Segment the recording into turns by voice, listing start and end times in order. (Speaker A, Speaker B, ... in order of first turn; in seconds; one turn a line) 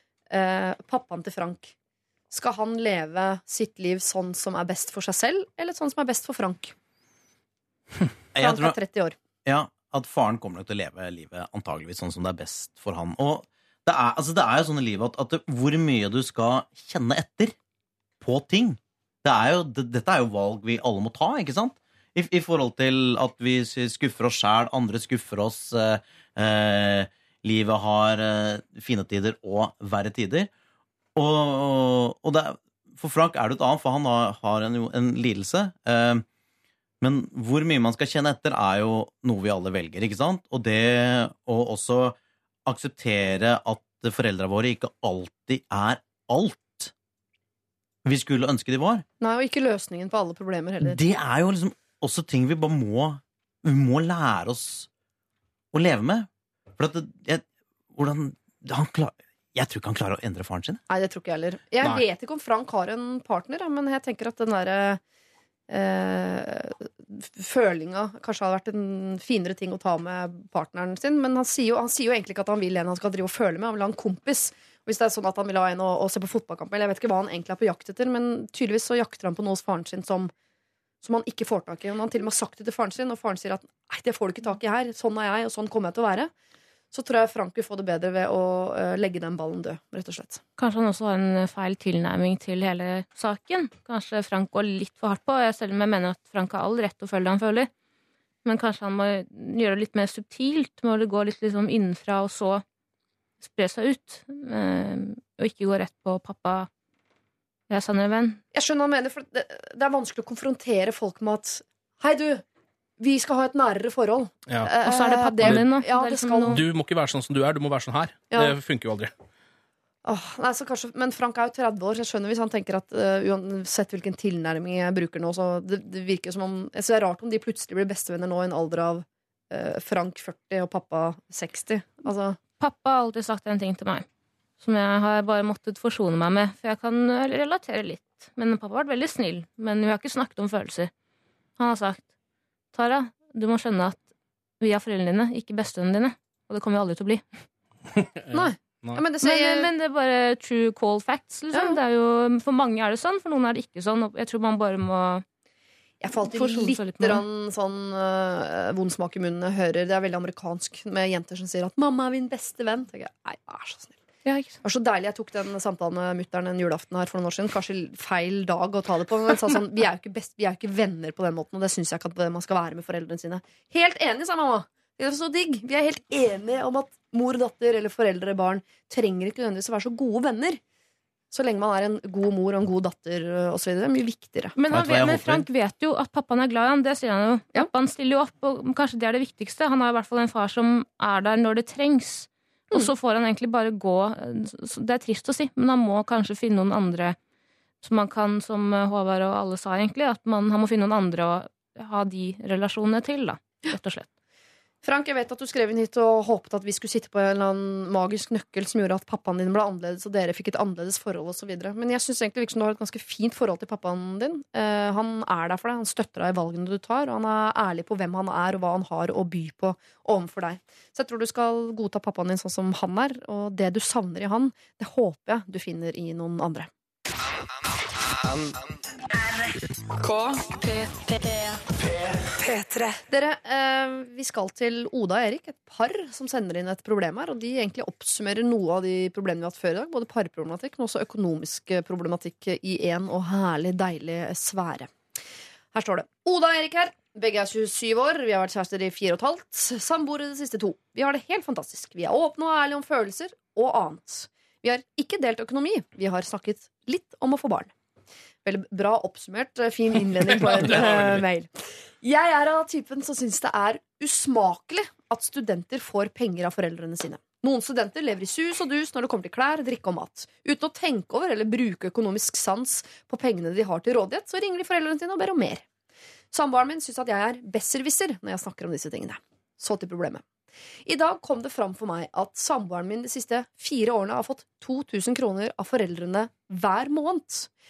Speaker A: 0.3-1.7
Speaker A: 2.3-6.7
Speaker B: 8.3-8.8
Speaker A: 8.4-9.2
Speaker B: 9.4-17.5
Speaker B: 18.2-30.5
Speaker B: 31.1-36.2
Speaker B: 37.0-46.9
Speaker B: 48.0-49.0
Speaker A: 49.2-51.0
Speaker B: 50.8-54.9
Speaker B: 55.7-60.8
Speaker A: 60.9-65.0
Speaker A: 65.7-80.3
Speaker A: 81.0-86.3
Speaker A: 86.9-90.4
Speaker C: 90.6-97.7
Speaker C: 98.4-102.6
Speaker C: 103.4-106.7
Speaker C: 107.7-108.4
Speaker A: 108.5-112.4
Speaker A: 113.0-116.6
Speaker D: 114.5-114.7
Speaker C: 114.8-116.6
Speaker D: 116.5-119.1
Speaker A: 120.0-132.4
Speaker C: 132.6-134.1
Speaker C: 134.6-140.9
Speaker C: 141.6-142.0
Speaker C: 142.7-144.0
Speaker C: 144.6-147.3
Speaker D: 148.0-149.0
Speaker A: 148.3-149.7
Speaker C: 149.2-155.2
Speaker A: 151.5-151.8
Speaker A: 156.0-163.9
Speaker C: 156.2-157.2
Speaker C: 164.2-164.6
Speaker A: 164.6-180.6
Speaker A: 181.3-184.6
Speaker C: 184.6-197.2
Speaker B: 184.7-185.4
Speaker C: 197.8-204.1
Speaker A: 204.8-226.7
Speaker E: 230.0-231.6
Speaker E: 232.3-233.0
Speaker A: 233.1-244.9
Speaker A: 245.7-257.7
Speaker A: 258.4-261.5
Speaker D: 260.3-261.2
Speaker A: 262.0-275.6
Speaker A: 276.3-280.2
Speaker A: 280.9-287.5